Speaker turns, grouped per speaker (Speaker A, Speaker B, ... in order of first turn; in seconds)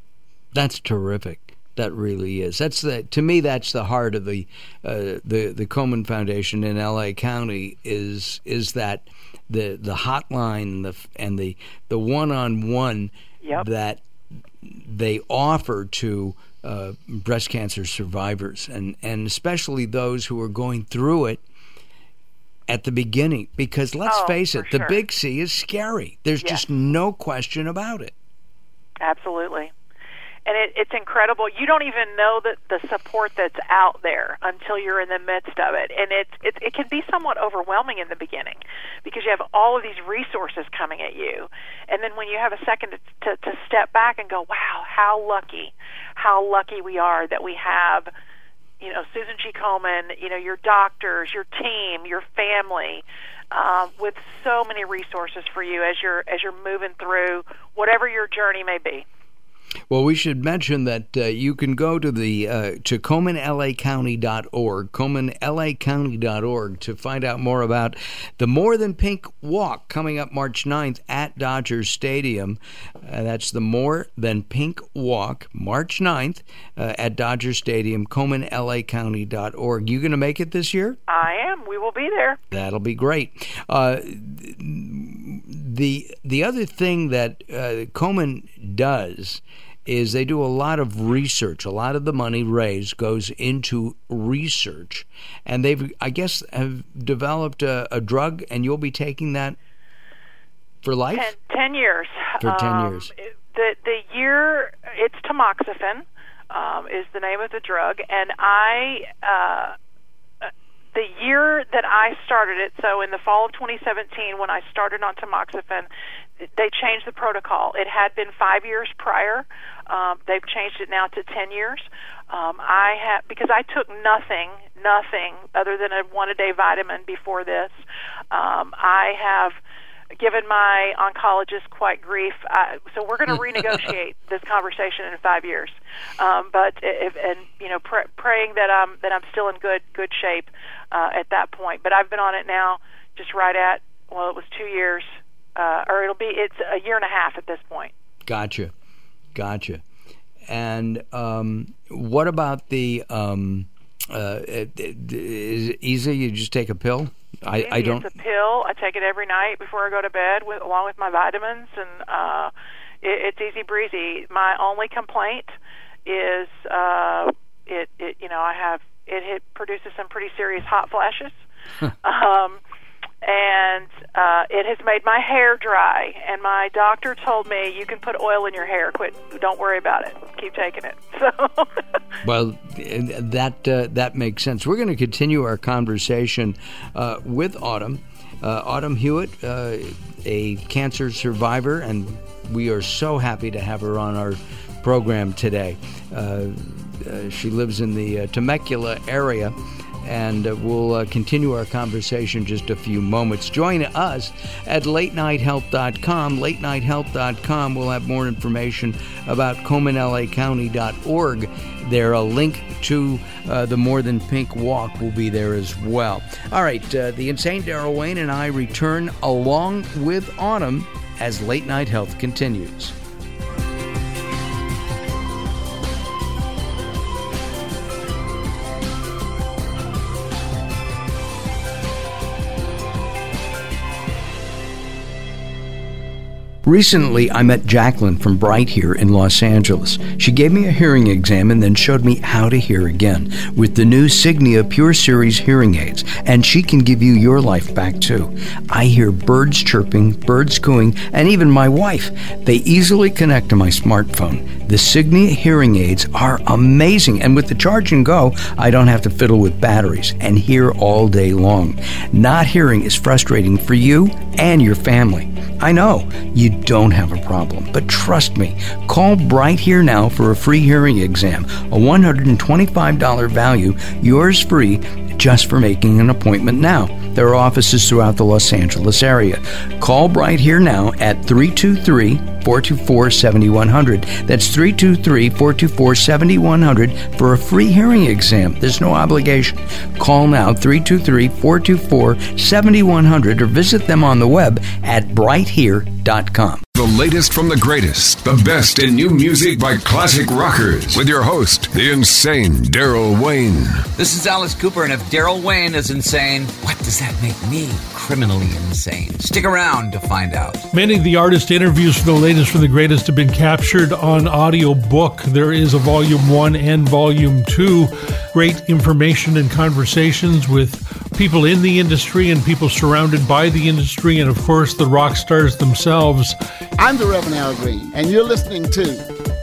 Speaker A: 0.5-14.0, 14.6-21.4, 22.7-28.1, 59.9-81.0, 82.5-99.6, 100.8-101.3, 102.4-103.1, 148.3-148.7, 149.3-149.8, 150.5-158.1, 182.2-222.9, 236.7-296.6
Speaker B: 24.1-25.0, 29.0-29.7, 30.5-48.1, 48.8-59.0, 81.1-82.4, 101.1-109.7, 110.4-115.9, 116.4-127.8, 128.3-129.6, 130.2-147.9, 157.5-165.5, 166.1-171.4, 172.0-172.6, 173.2-182.0
Speaker C: 296.8-303.9
Speaker D: 303.9-310.6
Speaker E: 310.7-326.4
Speaker F: 326.8-329.1